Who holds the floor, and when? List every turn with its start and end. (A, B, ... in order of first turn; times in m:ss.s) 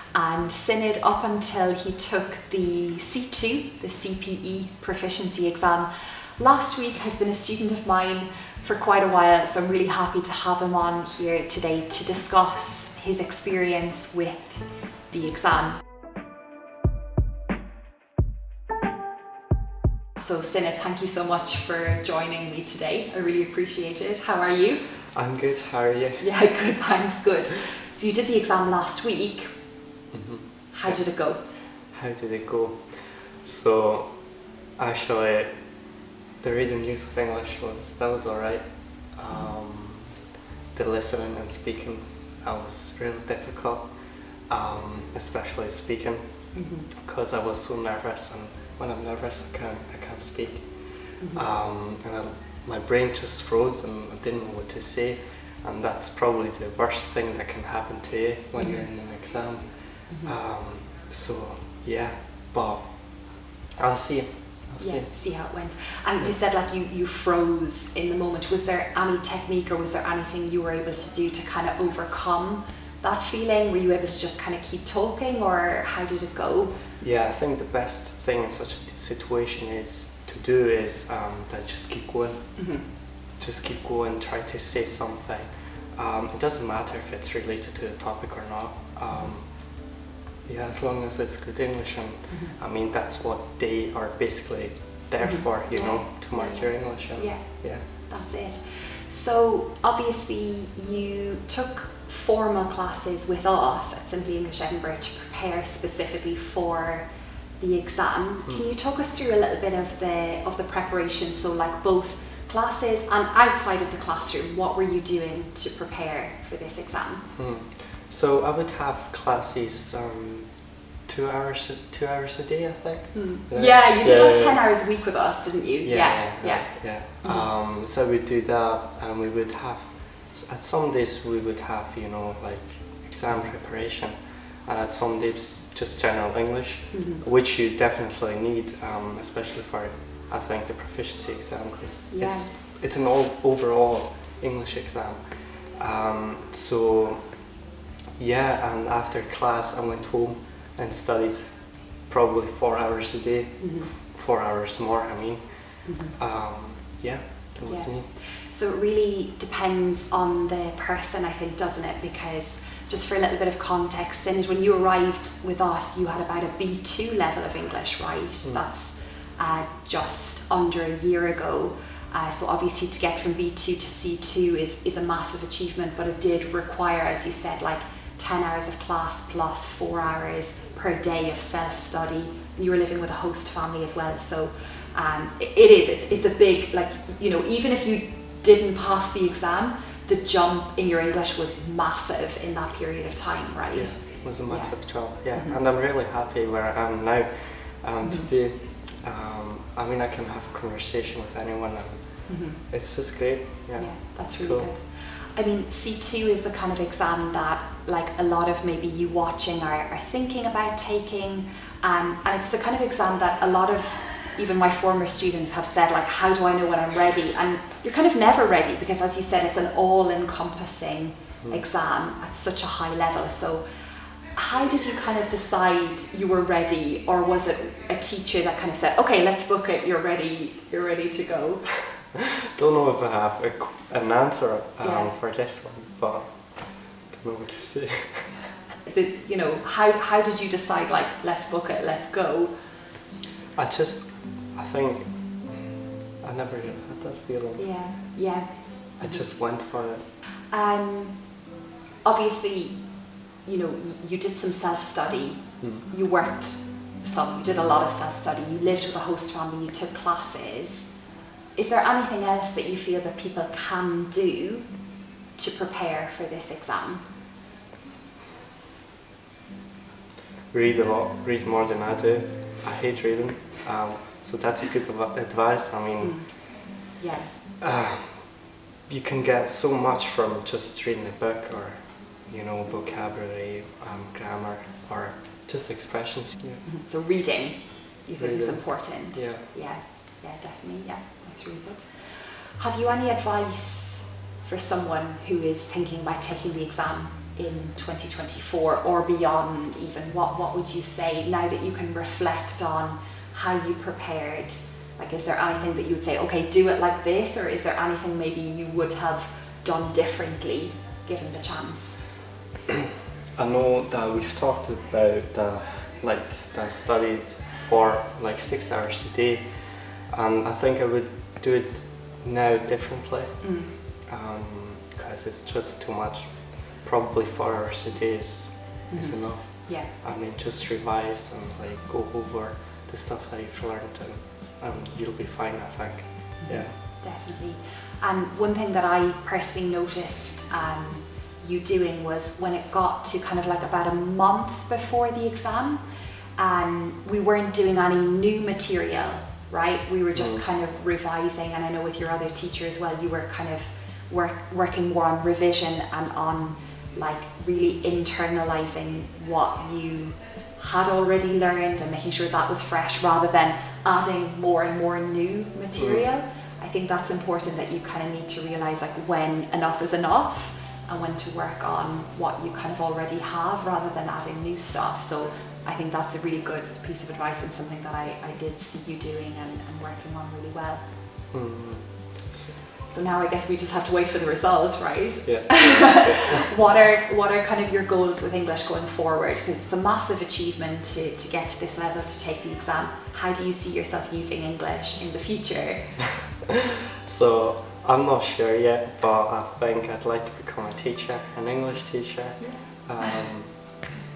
0:00.1-0:15.8 A
0:20.2-0:24.8 A
0:25.1-0:26.3 B
0:26.2-0:29.5 A
0:30.1-0:35.5 B
0:30.7-0:31.4 A
0:36.4-0:40.2 B
0:40.7-1:05.1 B
0:46.5-0:46.8 A
0:51.2-0:51.4 A
0:58.6-0:58.8 A
1:00.1-1:00.4 A
1:04.8-1:16.8 A
1:17.0-1:29.9 B
1:22.6-1:22.8 A
1:29.1-1:29.3 A
1:30.4-1:37.8 B
1:32.3-1:32.6 A
1:35.2-1:47.0 A
1:47.6-1:57.3 A
1:57.4-2:04.6 B
2:03.1-2:07.5 A
2:05.8-2:27.4 B
2:16.9-2:17.2 A
2:22.1-2:22.5 A
2:28.2-2:38.1 B
2:33.6-2:33.9 A
2:35.8-2:36.1 A
2:37.6-3:15.6 A
3:13.7-3:24.7 B
3:18.0-3:18.3 A
3:22.3-3:22.6 A
3:23.8-3:43.6 A
3:44.3-3:52.0 A
3:52.6-3:58.4 B
3:54.8-3:55.1 A
3:58.8-4:02.5 A
4:03.6-4:05.7 B
4:06.2-4:07.8 B
4:07.6-4:09.3 A
4:09.0-4:10.0 B
4:10.5-4:11.4 A
4:12.0-4:20.9 A
4:21.5-4:27.0 A
4:30.5-4:36.4 B
4:36.0-4:37.3 A
4:37.6-4:46.6 B
4:46.6-5:12.1 A
4:48.2-4:49.4 B
5:13.4-5:36.7 B
5:23.4-5:23.7 A
5:28.9-5:29.9 A
5:36.4-5:45.8 A
5:46.4-6:20.8 A
5:50.1-5:50.4 B
6:05.7-6:06.1 B
6:21.3-6:22.6 B
6:22.8-6:36.1 A
6:25.2-6:26.4 B
6:37.1-6:43.9 B